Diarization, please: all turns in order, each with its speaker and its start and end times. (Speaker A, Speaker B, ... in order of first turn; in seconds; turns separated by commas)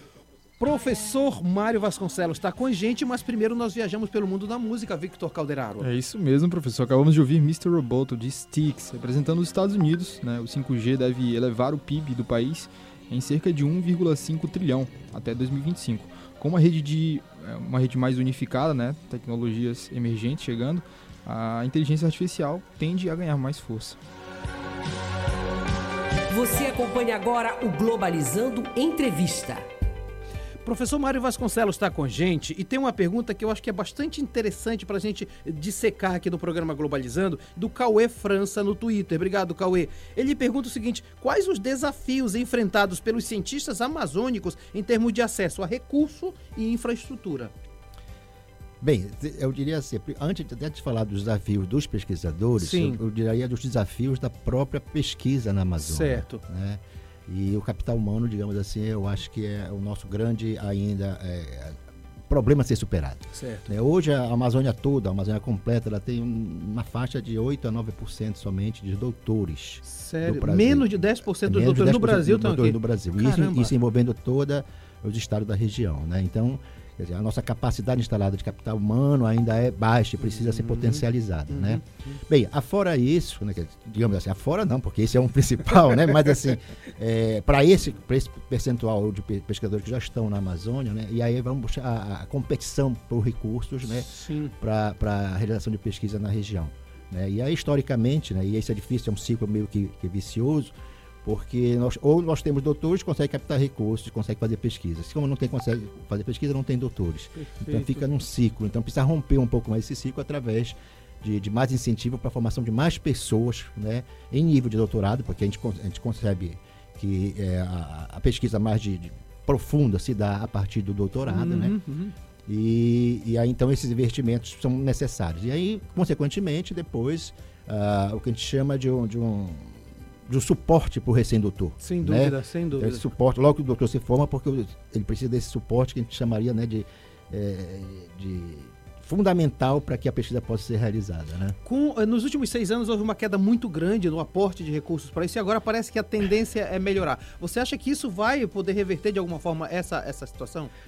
Speaker A: 0.6-5.9, Speaker B: 5.8-24.0, Speaker C: 26.3-29.6, Speaker A: 30.6-47.5, Speaker D: 48.8-61.8, Speaker A: 52.6-53.0, Speaker A: 55.8-56.4, Speaker D: 62.3-121.8, Speaker A: 63.3-63.7, Speaker A: 69.8-73.7, Speaker A: 80.2-82.2, Speaker A: 94.0-94.5, Speaker A: 107.3-108.0, Speaker A: 121.2-122.1, Speaker D: 122.5-141.6, Speaker A: 131.8-133.1, Speaker A: 141.6-150.7